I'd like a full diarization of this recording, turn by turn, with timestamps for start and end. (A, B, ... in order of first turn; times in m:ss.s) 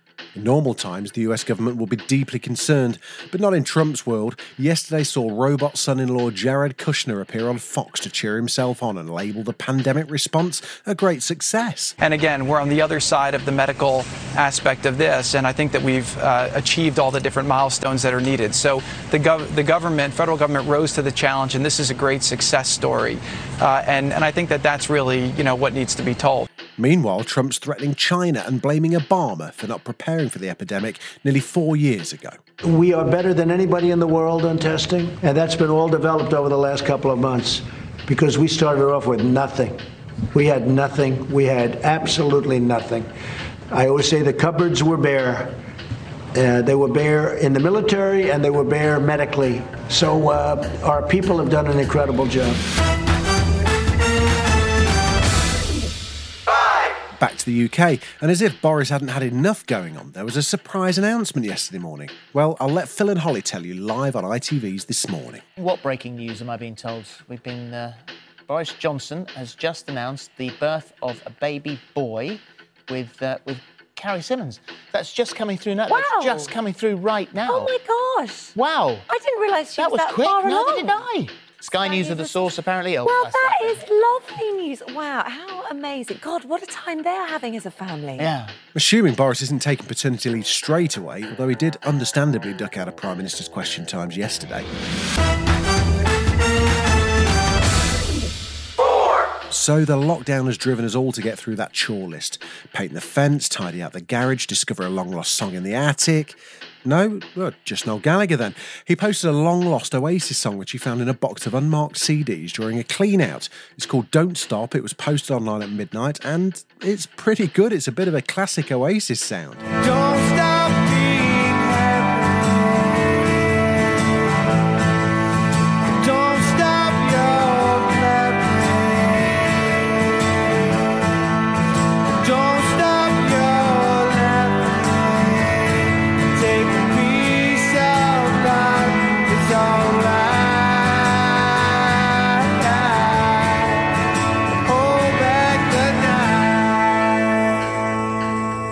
0:00.3-0:12.0 A
0:12.0-0:26.5 B
0:26.8-0:32.4 A
0:32.6-0:39.8 C
0:40.3-0:43.1 C
0:43.7-0:45.5 C
0:46.3-0:52.6 C
0:57.2-1:05.4 A
1:05.6-1:17.7 D
1:15.9-1:16.5 E
1:17.5-1:18.4 E
1:18.6-1:19.1 D
1:19.2-1:21.0 E
1:19.8-1:23.7 D
1:21.8-1:22.4 E
1:23.1-1:28.3 E
1:28.2-1:28.5 D
1:28.7-1:34.7 A
1:39.5-1:59.6 A
1:59.8-2:01.9 C
2:06.0-2:08.4 C